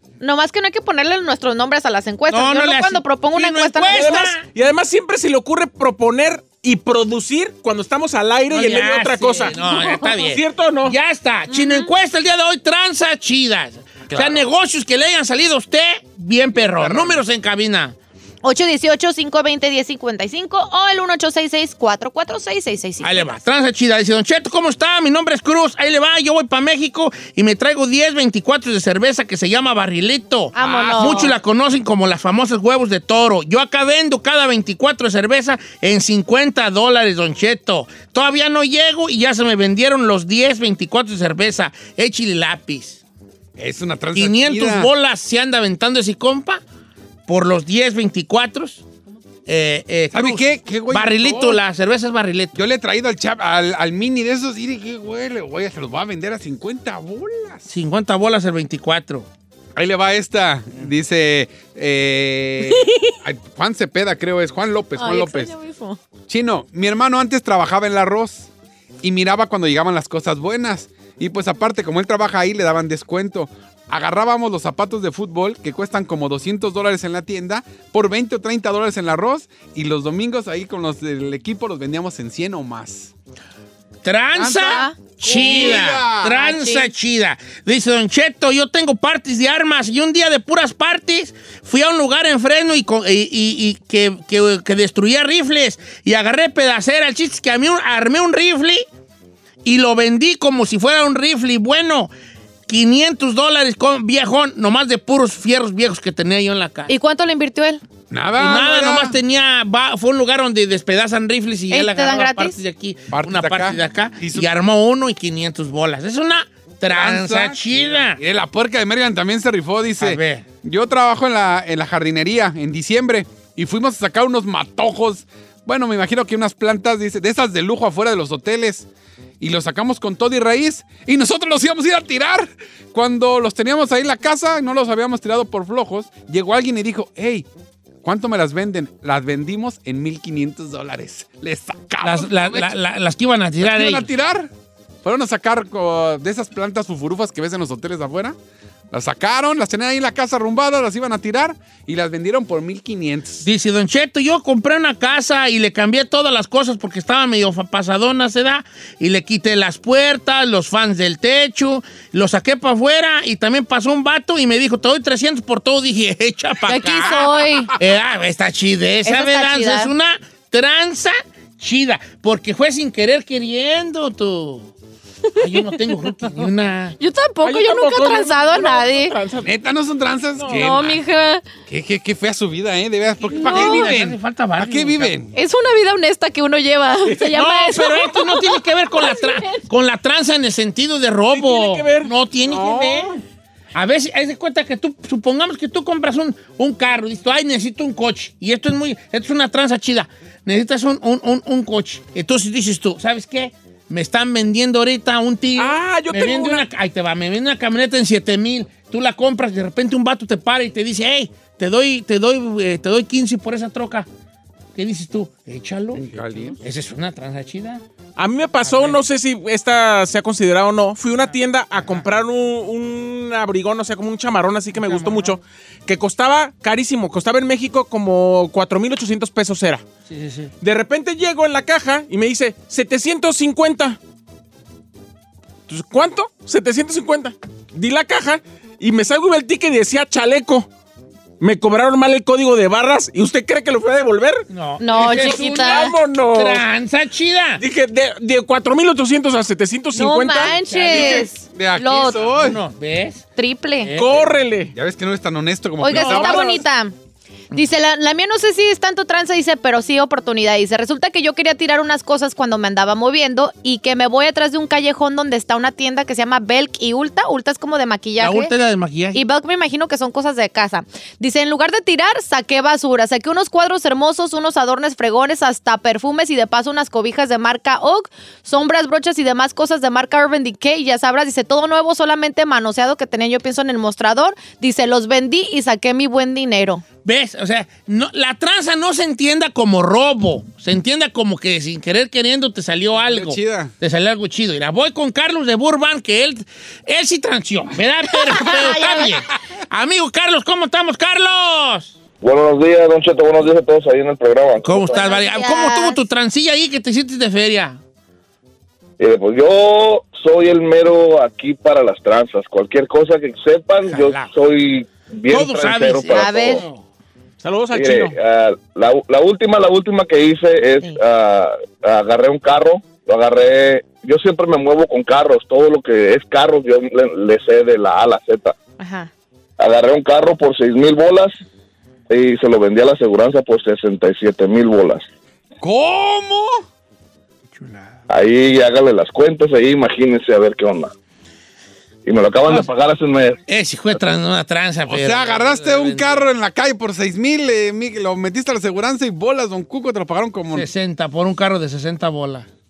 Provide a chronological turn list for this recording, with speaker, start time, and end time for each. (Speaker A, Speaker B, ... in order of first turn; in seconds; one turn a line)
Speaker A: 0.2-4.3
Speaker B: 2.3-4.4
Speaker C: 3.9-10.9
Speaker B: 8.5-17.9
Speaker A: 9.6-10.1
Speaker A: 11.5-11.9
Speaker D: 14.1-14.4
Speaker D: 16.8-17.1
Speaker A: 18.4-23.2
Speaker B: 23.0-43.0
Speaker A: 30.5-31.3
Speaker D: 30.6-31.3
Speaker D: 43.6-44.9
Speaker B: 44.1-46.6
Speaker B: 47.3-48.8
Speaker B: 49.5-52.6
Speaker D: 50.1-51.6
Speaker D: 52.5-57.7
Speaker B: 57.7-59.3
Speaker D: 59.8-65.5
Speaker A: 62.6-63.1
Speaker A: 65.0-66.0
Speaker D: 66.3-68.5
Speaker D: 69.0-83.1
Speaker B: 84.0-98.8
Speaker D: 84.3-86.3
Speaker A: 84.6-86.9
Speaker B: 99.6-102.1
Speaker B: 102.7-106.9
Speaker A: 106.9-107.8
Speaker D: 108.1-109.1
Speaker B: 108.4-118.2
Speaker A: 111.7-112.6
Speaker D: 113.1-114.5
Speaker D: 116.9-128.9
Speaker B: 120.0-120.4
Speaker D: 129.4-137.4
Speaker D: 138.0-142.8
Speaker B: 142.0-144.1
Speaker D: 143.6-144.5
Speaker D: 145.0-148.3
Speaker D: 148.9-153.4
Speaker B: 153.4-174.7
Speaker A: 166.7-167.7
Speaker A: 169.0-169.9
Speaker B: 175.3-177.0
Speaker A: 177.0-179.1
Speaker C: 177.4-179.5
Speaker D: 179.4-181.0
Speaker C: 180.3-180.6
Speaker A: 180.5-181.4
Speaker D: 181.7-185.3
Speaker B: 183.2-185.1
Speaker A: 183.3-183.9
Speaker A: 185.3-189.6
Speaker B: 187.1-193.1
Speaker C: 191.3-192.1
Speaker D: 192.4-193.2
Speaker B: 193.7-214.1
Speaker C: 205.6-206.6
Speaker B: 214.7-216.0
Speaker D: 215.9-216.6
Speaker B: 216.6-217.8
Speaker C: 218.2-229.8
Speaker B: 218.6-219.0
Speaker B: 221.8-222.0
Speaker B: 224.7-225.4
Speaker B: 230.1-230.5
Speaker C: 230.6-234.0
Speaker C: 235.7-240.7
Speaker C: 241.4-246.6
Speaker B: 244.5-247.6
Speaker A: 244.8-245.9
Speaker C: 247.6-251.2
Speaker A: 249.9-252.2
Speaker B: 250.6-251.3
Speaker D: 250.9-252.6
Speaker B: 252.2-253.2
Speaker A: 253.3-253.9
Speaker B: 253.8-254.2
Speaker C: 254.0-254.7
Speaker D: 254.7-256.6
Speaker A: 255.8-256.9
Speaker C: 255.8-256.4
Speaker A: 257.5-268.5
Speaker B: 268.2-269.2
Speaker A: 269.1-286.8
Speaker B: 287.0-301.9
Speaker D: 292.9-293.7
Speaker A: 298.1-299.2
Speaker E: 302.2-305.0
Speaker B: 304.6-307.8
Speaker A: 305.0-306.0
Speaker E: 309.0-316.6
Speaker B: 313.9-314.3
Speaker B: 315.3-316.8
Speaker A: 316.1-316.6
Speaker C: 317.4-318.1
Speaker E: 317.7-328.6
Speaker A: 328.8-329.1
Speaker E: 329.6-331.3
Speaker E: 332.1-335.1
Speaker D: 335.6-336.6
Speaker B: 337.5-338.0
Speaker E: 338.1-340.9
Speaker E: 342.1-343.4
Speaker B: 343.5-346.3
Speaker D: 344.9-350.7
Speaker B: 350.5-352.5